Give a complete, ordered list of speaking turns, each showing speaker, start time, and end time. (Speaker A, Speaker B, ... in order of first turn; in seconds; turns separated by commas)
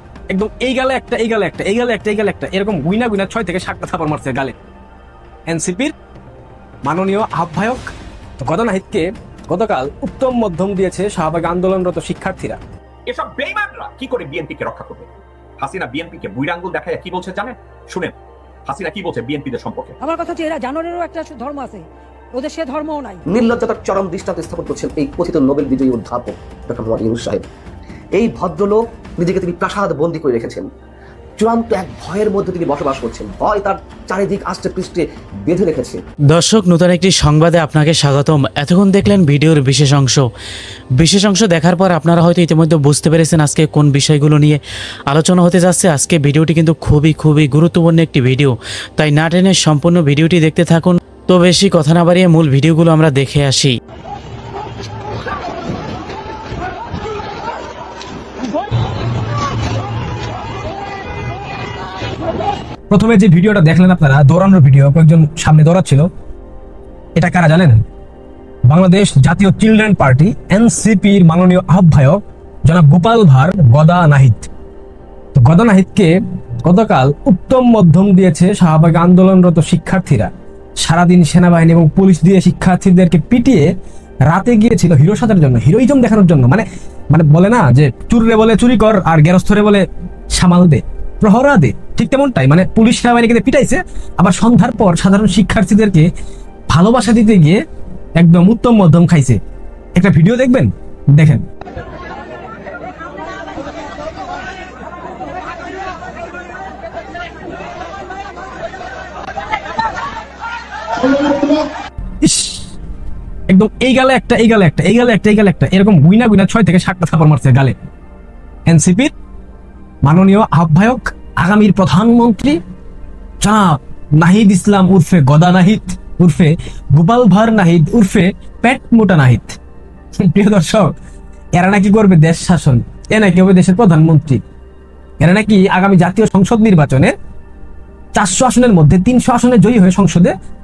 Speaker A: 0.3-4.5, Speaker A: 5.5-6.0, Speaker A: 6.8-12.6, Speaker B: 13.1-18.1, Speaker B: 18.7-20.0, Speaker C: 20.0-23.2, Speaker D: 23.3-27.5, Speaker D: 28.2-30.7, Speaker D: 31.4-36.0, Speaker E: 36.3-40.3, Speaker E: 41.0-53.8, Speaker A: 62.9-66.1, Speaker A: 67.2-67.8, Speaker A: 68.7-74.5, Speaker A: 75.3-83.7, Speaker A: 84.3-96.1, Speaker A: 96.7-97.6, Speaker A: 98.2-99.4, Speaker A: 100.0-101.5, Speaker A: 112.2-112.6, Speaker A: 113.5-117.8, Speaker A: 118.7-119.1, Speaker A: 120.0-122.6, Speaker A: 123.4-129.6, Speaker A: 130.1-130.9, Speaker A: 131.5-134.4, Speaker A: 135.2-137.1, Speaker A: 138.1-140.3